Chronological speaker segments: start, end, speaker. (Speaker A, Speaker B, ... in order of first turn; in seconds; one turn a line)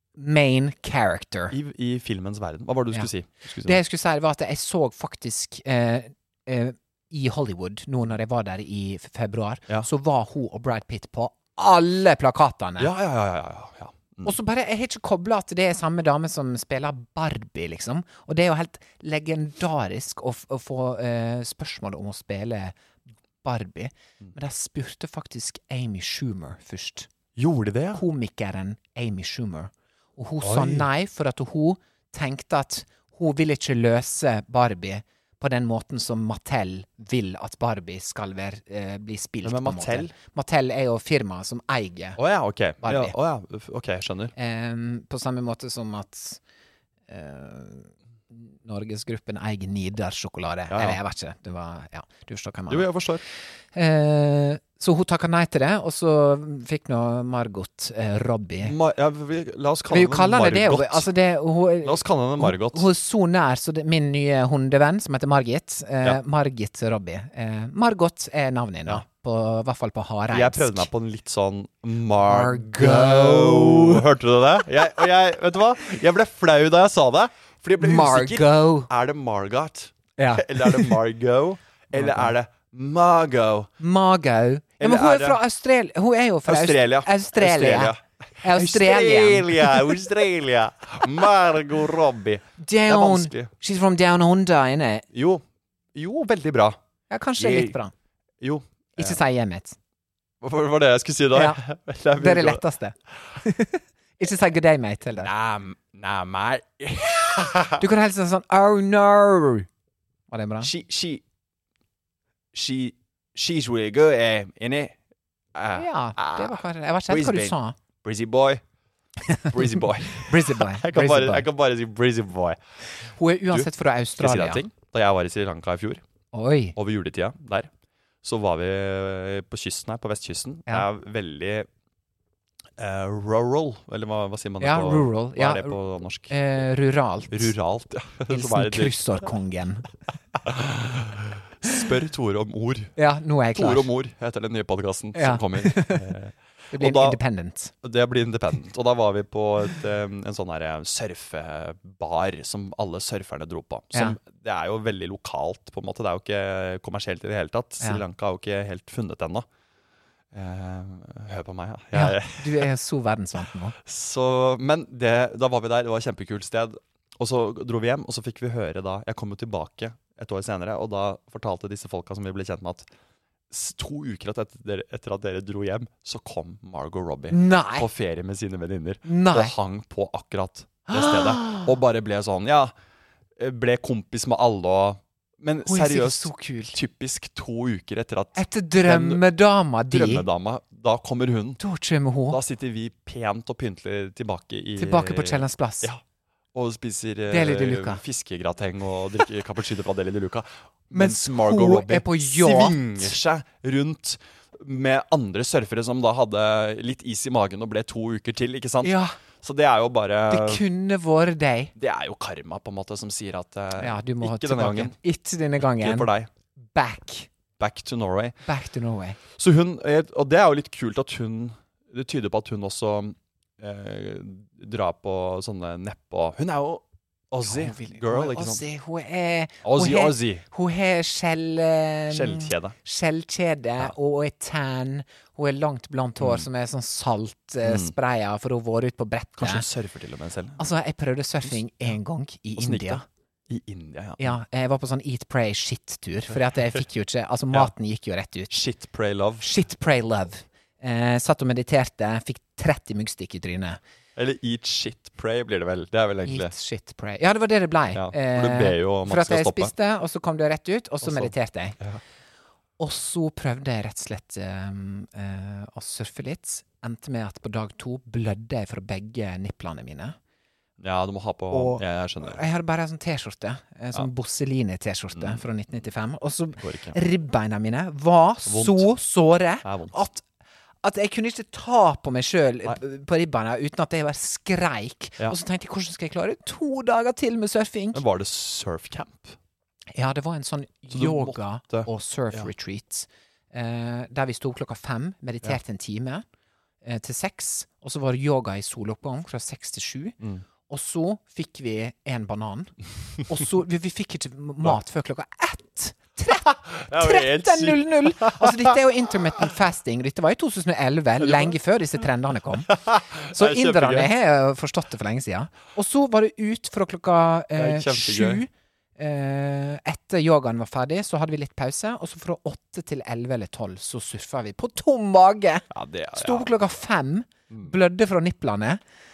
Speaker A: 0.1-1.6
Speaker B: 1.5-3.8
Speaker A: 3.6-12.9
Speaker B: 12.8-14.3
Speaker A: 14.2-22.8
Speaker A: 23.4-27.1
Speaker B: 27.4-28.0
Speaker A: 27.9-42.2
Speaker B: 30.4-30.9
Speaker B: 39.4-40.1
Speaker B: 42.2-44.3
Speaker A: 42.8-43.1
Speaker A: 44.4-46.4
Speaker A: 47.1-52.9
Speaker B: 50.7-51.0
Speaker B: 52.7-53.2
Speaker A: 53.7-58.7
Speaker B: 58.6-61.1
Speaker A: 59.9-70.9
Speaker B: 61.8-62.9
Speaker B: 70.3-83.7
Speaker A: 72.2-74.0
Speaker A: 77.8-78.9
Speaker A: 80.2-81.0
Speaker A: 81.9-82.3
Speaker A: 83.8-90.0
Speaker B: 84.8-85.4
Speaker B: 86.5-93.5
Speaker A: 92.6-95.0
Speaker B: 95.1-95.4
Speaker B: 95.9-96.8
Speaker A: 97.1-97.9
Speaker B: 97.4-97.8
Speaker B: 98.4-99.2
Speaker A: 99.0-99.8
Speaker B: 100.4-102.6
Speaker A: 101.3-101.6
Speaker A: 102.2-105.3
Speaker B: 105.1-107.8
Speaker A: 107.8-109.7
Speaker A: 110.3-110.7
Speaker B: 110.6-111.2
Speaker B: 112.5-115.0
Speaker B: 115.5-118.6
Speaker A: 115.7-117.8
Speaker A: 119.3-121.5
Speaker B: 119.5-122.6
Speaker A: 123.0-124.6
Speaker B: 123.5-126.0
Speaker A: 126.3-126.8
Speaker B: 126.8-127.7
Speaker B: 128.2-131.7
Speaker B: 132.8-136.3
Speaker A: 134.6-135.8
Speaker A: 136.3-137.5
Speaker B: 137.3-139.2
Speaker A: 138.3-139.9
Speaker B: 140.4-142.9
Speaker A: 142.9-143.9
Speaker B: 143.5-147.2
Speaker A: 145.1-146.1
Speaker A: 146.7-147.7
Speaker B: 147.8-159.4
Speaker B: 160.3-162.7
Speaker A: 161.9-163.8
Speaker B: 163.8-172.9
Speaker B: 173.5-182.7
Speaker A: 177.3-177.9
Speaker A: 179.1-179.5
Speaker A: 180.9-181.7
Speaker B: 183.4-189.2
Speaker A: 185.7-186.8
Speaker A: 188.3-190.2
Speaker B: 189.9-191.6
Speaker A: 191.6-192.4
Speaker B: 192.3-196.0
Speaker A: 194.8-195.9
Speaker B: 196.5-210.6
Speaker A: 197.3-198.0
Speaker A: 200.9-203.1
Speaker A: 208.8-209.1
Speaker A: 210.3-211.7
Speaker B: 211.8-215.0
Speaker A: 213.8-217.3
Speaker B: 215.6-216.3
Speaker B: 217.6-218.4
Speaker A: 218.4-219.2
Speaker B: 219.4-228.6
Speaker A: 227.4-239.6
Speaker B: 229.6-230.4
Speaker B: 232.1-232.8
Speaker B: 236.2-236.5
Speaker B: 237.6-237.9
Speaker B: 239.4-240.6
Speaker A: 240.6-243.0
Speaker B: 241.4-241.9
Speaker B: 242.6-244.4
Speaker A: 244.2-248.6
Speaker B: 246.3-246.8
Speaker B: 248.5-249.5
Speaker A: 249.4-253.8
Speaker B: 254.2-256.5
Speaker A: 256.2-261.8
Speaker B: 257.9-259.7
Speaker B: 261.0-262.0
Speaker A: 262.8-270.2
Speaker B: 270.8-272.4
Speaker A: 271.5-280.2
Speaker B: 275.1-275.4
Speaker B: 276.6-276.9
Speaker B: 278.4-278.9
Speaker B: 279.6-280.0
Speaker A: 280.8-288.0
Speaker B: 287.9-289.4
Speaker A: 289.9-296.2
Speaker B: 290.9-292.5
Speaker A: 296.8-302.7
Speaker A: 303.2-312.7
Speaker B: 306.4-308.8
Speaker B: 311.2-311.6
Speaker B: 312.6-314.1
Speaker A: 313.3-328.8
Speaker B: 317.5-318.4
Speaker B: 325.7-326.5
Speaker B: 327.5-327.7